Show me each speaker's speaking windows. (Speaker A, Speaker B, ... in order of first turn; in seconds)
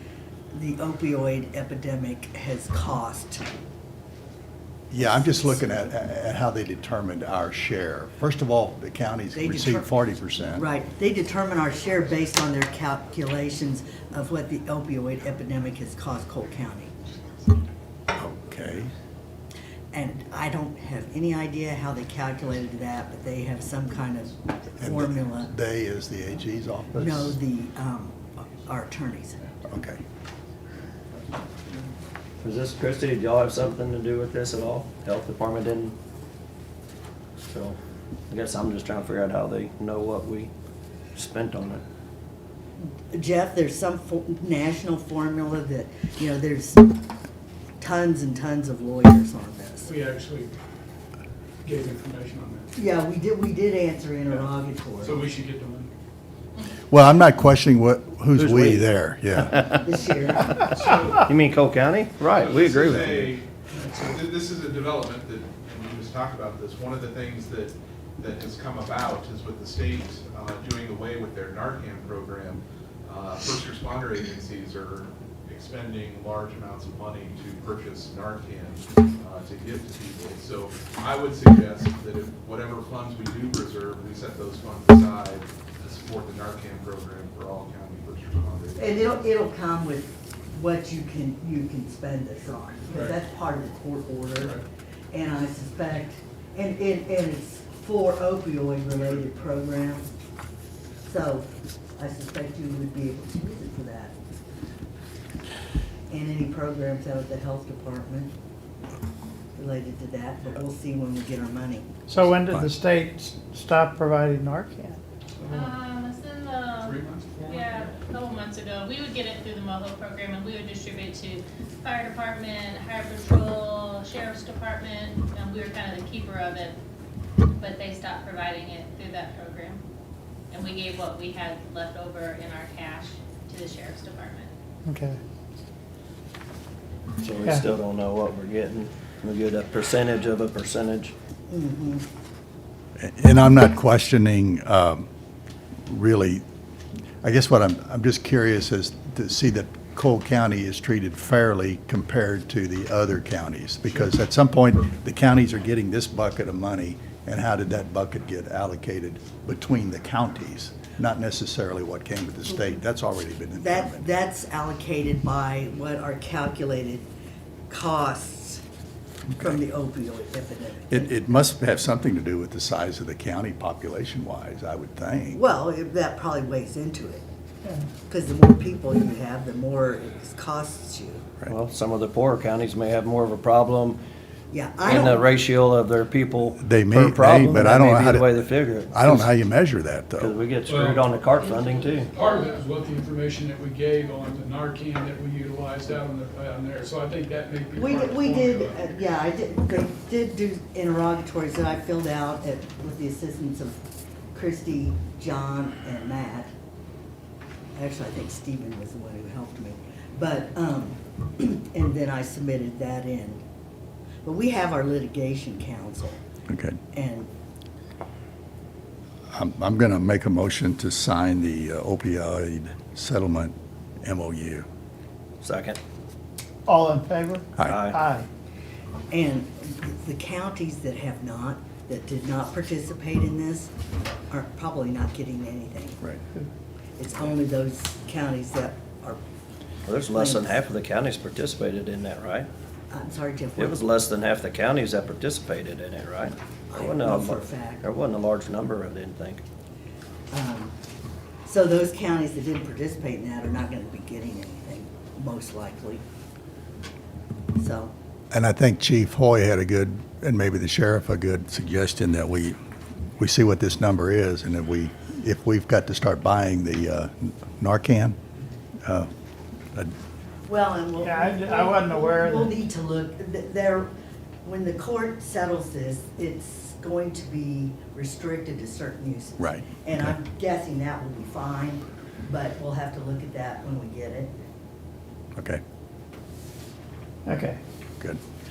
Speaker A: 0.5-3.5, 5.0-5.9, 9.3-16.9, 19.9-25.5, 26.9-29.6, 42.8-47.0, 47.8-49.9, 52.8-55.2, 59.6-60.6, 88.8-100.1, 101.0-104.2, 106.1-108.3, 109.6-111.9, 141.5-142.1, 163.6-167.1, 167.7-168.6, 169.4-171.2, 175.3-177.3, 178.1-181.3, 184.5-185.2, 197.8-203.8, 204.3-206.5, 207.8-213.4, 214.2-216.2, 216.9-217.3, 229.1-233.7, 234.3-236.0, 237.0-239.2, 240.2-240.6, 242.9-243.8, 246.7-247.8, 250.3-250.7, 251.4-256.0, 257.6-257.9, 270.5-273.9, 274.4-284.3
Speaker B: 4.9-10.7, 18.1-18.9, 24.8-27.4, 29.7-30.0, 56.9-59.6, 143.0-145.1, 145.9-146.4, 147.2-164.1, 169.3-169.6, 170.9-175.4, 186.6-190.3, 216.5-216.8, 219.3-224.7, 258.3-262.6, 263.2-268.2, 279.4-279.8, 285.4-285.6
Speaker C: 32.4-36.0, 37.5-37.8, 38.3-40.5, 41.1-41.8, 58.4-58.9, 60.5-63.4, 137.2-141.1, 181.5-184.0, 184.8-189.3, 190.2-192.1, 225.4-225.8, 227.6-228.0, 239.8-242.5, 243.6-249.4
Speaker D: 49.9-50.5, 51.6-52.7, 55.0-55.9, 63.7-64.2, 92.9-93.2, 190.7-191.4, 192.1-198.9
Speaker E: 60.6-61.3, 62.2-63.5, 64.0-88.8, 116.8-118.0
Speaker F: 112.1-115.0, 134.9-135.2, 226.7-228.3, 271.1-272.5, 287.2-287.6
Speaker G: 115.5-126.8, 127.5-129.8, 130.5-134.5, 191.6-192.4